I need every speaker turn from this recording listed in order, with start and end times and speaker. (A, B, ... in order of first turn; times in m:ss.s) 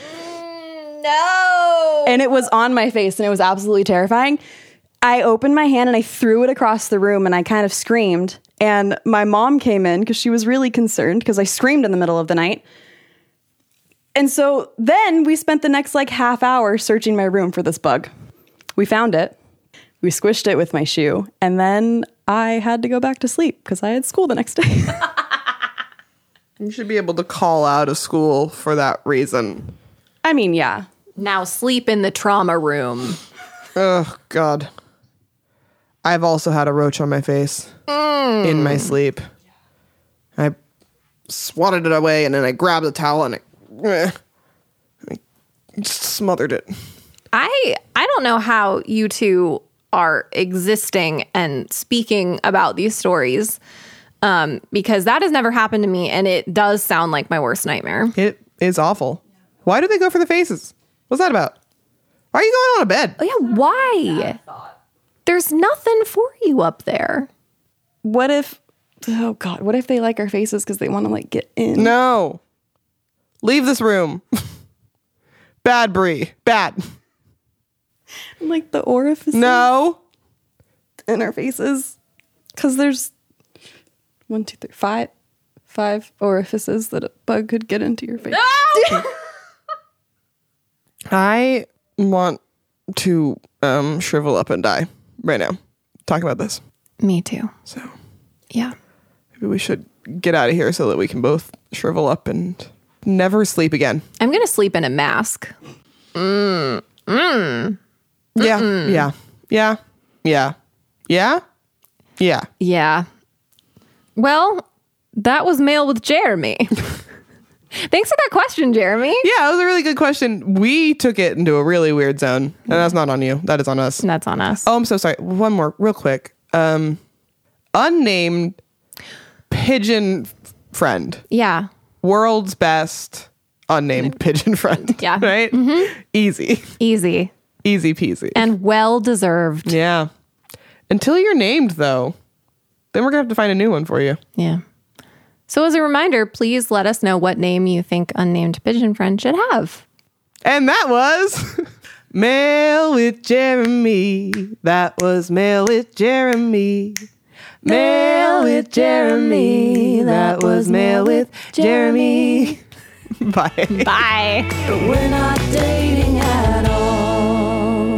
0:00.2-0:02.2 A
0:02.1-0:04.4 B
0:05.0-0:12.6 B
0:14.2-0:18.1 B
0:18.8-0:19.4 B
0:20.0-0:25.1 B
0:26.6-0:29.7 C
0:30.2-0:30.9 B
0:31.2-0:33.2 A
0:33.8-0:34.7 C
0:36.0-0:37.7 C
0:37.9-0:38.9 A
0:38.4-0:39.2 C
0:41.3-0:44.2 C
0:45.8-0:46.7 C
0:47.3-0:53.6 A
0:54.2-0:58.2 A
0:58.2-1:01.6 C
1:02.3-1:03.2 C
1:03.2-1:04.4 A
1:05.3-1:07.3 A
1:08.0-1:11.9 B
1:11.8-1:12.4 C
1:13.4-1:14.4 C
1:15.6-1:16.8 C
1:18.4-1:19.7 B
1:19.3-1:20.0 C
1:21.1-1:22.0 B
1:22.6-1:23.1 B
1:24.3-1:25.1 B
1:25.7-1:29.0 B
1:28.5-1:29.0 A
1:31.1-1:32.4 C
1:32.9-1:36.6 C
1:37.0-1:37.5 A
1:37.7-1:37.9 C
1:38.5-1:38.8 A
1:39.4-1:44.0 C
1:44.2-1:45.5 A
1:46.2-1:47.8 A
1:48.4-1:50.6 C
1:48.4-1:49.1 A
1:51.1-1:51.4 C
1:52.2-1:52.5 C
1:52.6-1:53.1 A
1:54.2-1:56.9 A
1:57.8-1:59.3 A
1:59.2-2:04.0 C
2:04.0-2:04.7 A
2:04.6-2:07.0 C
2:07.7-2:08.6 C
2:09.5-2:11.2 C
2:11.3-2:11.7 A
2:12.0-2:16.7 C
2:14.9-2:16.0 A
2:16.8-2:17.3 A
2:17.6-2:18.5 C
2:18.4-2:19.8 A
2:19.7-2:20.1 C
2:20.9-2:22.2 C
2:22.9-2:24.2 C
2:24.4-2:24.6 A
2:25.5-2:29.8 A
2:30.4-2:37.0 C
2:37.6-2:42.6 C
2:37.9-2:42.4 A
2:43.2-2:43.9 C
2:43.7-2:44.6 A
2:44.8-2:47.6 C